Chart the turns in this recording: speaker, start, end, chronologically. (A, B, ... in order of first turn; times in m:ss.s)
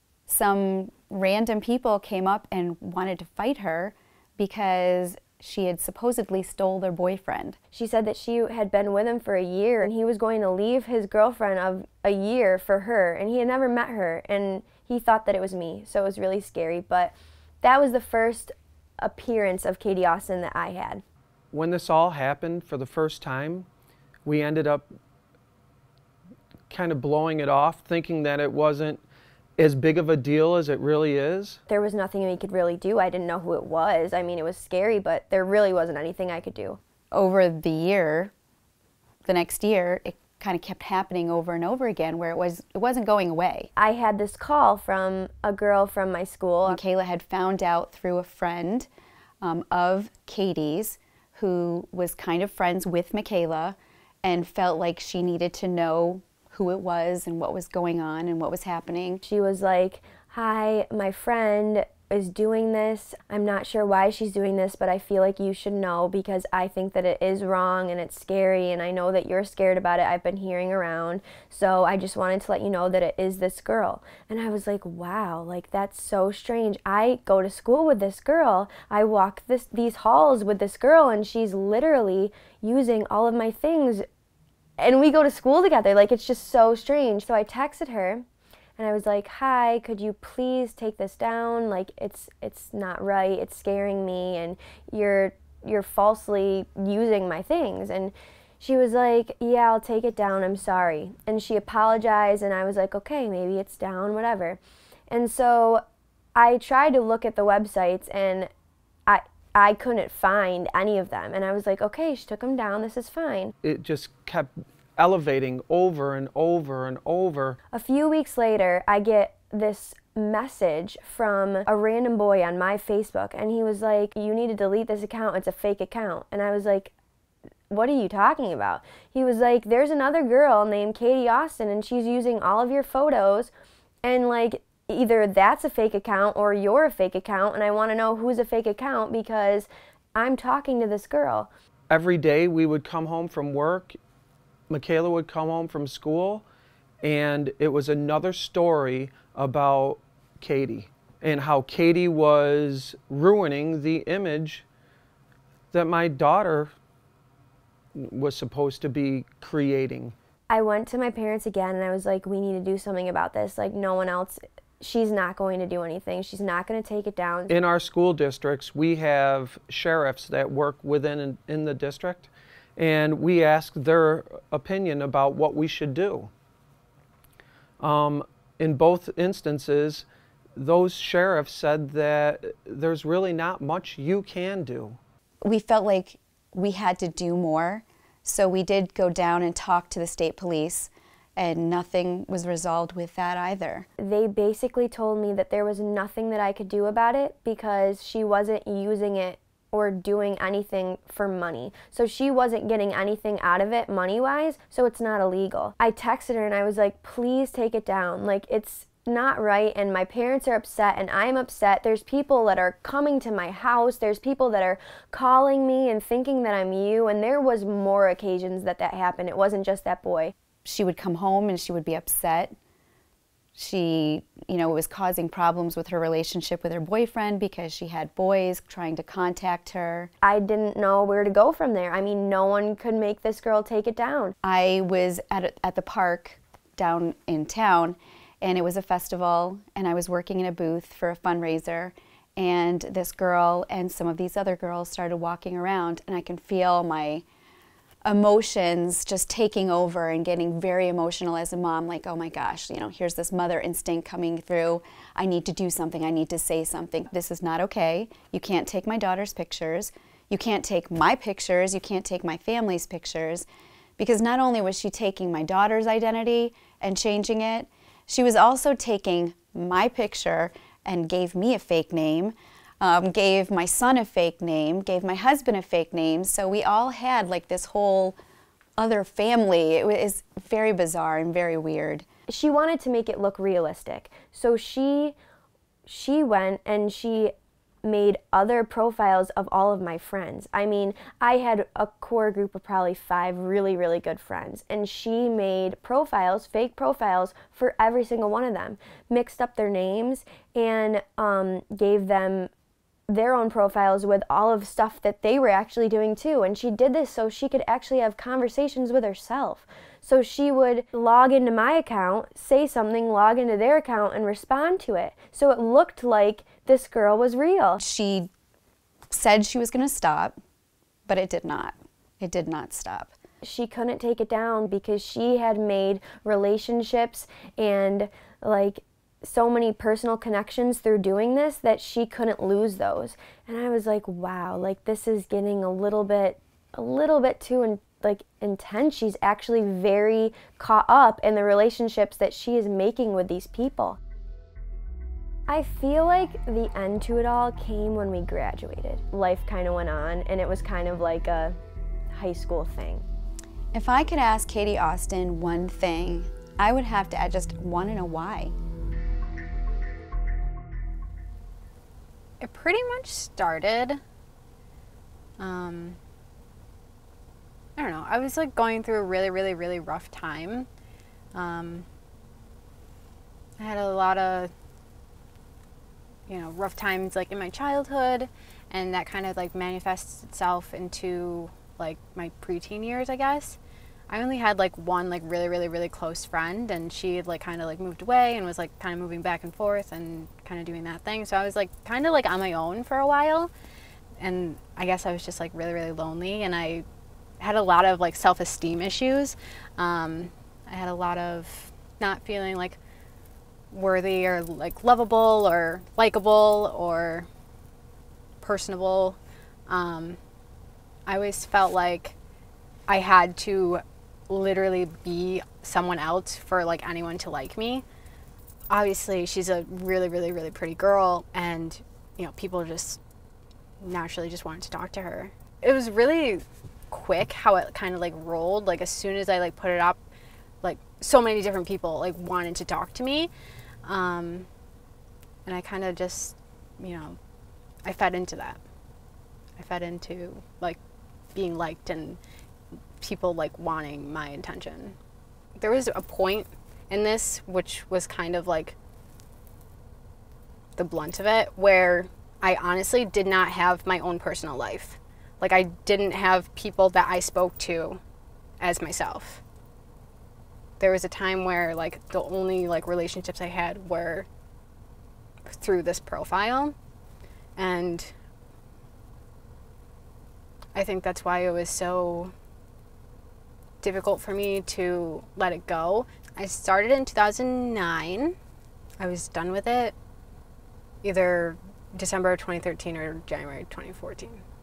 0:00.3-0:07.6 A
0:07.7-0:21.0 B
0:21.5-0:23.7 C
0:24.2-0:24.9 C
0:26.7-0:29.0 C
0:29.6-0:31.6 C
0:31.7-0:36.8 B
0:37.1-0:38.3 A
0:39.2-0:43.7 A
0:43.8-0:46.8 B
0:46.7-0:48.9 A
0:49.4-0:59.2 A
0:59.2-1:24.0 B
1:24.8-1:28.2 B
1:28.8-1:45.8 B
1:46.4-1:48.5 B
1:49.1-1:53.5 B
1:53.6-1:57.6 C
1:57.7-2:06.9 B
2:07.7-2:13.5 B
2:14.0-2:21.5 B
2:21.9-2:24.0 C
2:24.7-2:26.5 C
2:27.0-2:34.7 C
2:35.7-2:36.7 C
2:38.0-2:40.2 C
2:40.5-2:47.6 B
2:47.5-2:56.3 C
2:57.8-3:00.1 C
3:00.6-3:05.0 C
3:05.4-3:13.9 A
3:14.0-3:40.3 B
3:40.6-3:42.6 A
3:43.6-3:50.1 A
3:50.2-3:54.4 B
3:54.4-4:07.2 A
4:08.0-4:23.5 A
4:24.0-4:38.2 A
4:38.8-4:42.0 A
4:42.3-4:45.2 B
4:45.9-5:02.5 B
5:03.1-5:17.8 B
5:17.8-5:18.3 A
5:19.1-5:20.4 A
5:21.1-5:23.1 A
5:23.4-5:44.0 B
5:45.5-5:51.6 B
5:52.1-5:53.0 B
5:53.7-5:58.5 A
6:02.4-6:04.0 D
6:05.4-6:06.0 D
6:07.8-6:10.7 D
6:11.3-6:11.9 D
6:13.6-6:14.5 D
6:16.3-6:23.6 D
6:24.1-6:33.5 D
6:34.2-6:36.8 D
6:37.4-6:42.8 D
6:43.7-6:47.3 D
6:48.4-6:49.2 D
6:49.7-6:50.2 D
6:51.1-6:52.2 D
6:52.9-6:57.8 D
6:58.7-7:03.0 D
7:03.8-7:10.0 D
7:10.6-7:13.3 D
7:13.8-7:14.5 D
7:15.4-7:17.2 D
7:17.8-7:18.6 D
7:19.6-7:20.8 D
7:21.3-7:22.2 D
7:23.0-7:25.0 D
7:25.6-7:28.8 D
7:30.8-7:38.0 D
7:38.6-7:39.4 D
7:40.8-7:44.3 D
7:45.5-7:46.8 D
7:47.6-7:48.1 D
7:50.8-7:52.3 D
7:53.8-7:58.4 D
7:59.0-7:59.9 D
8:01.0-8:04.4 D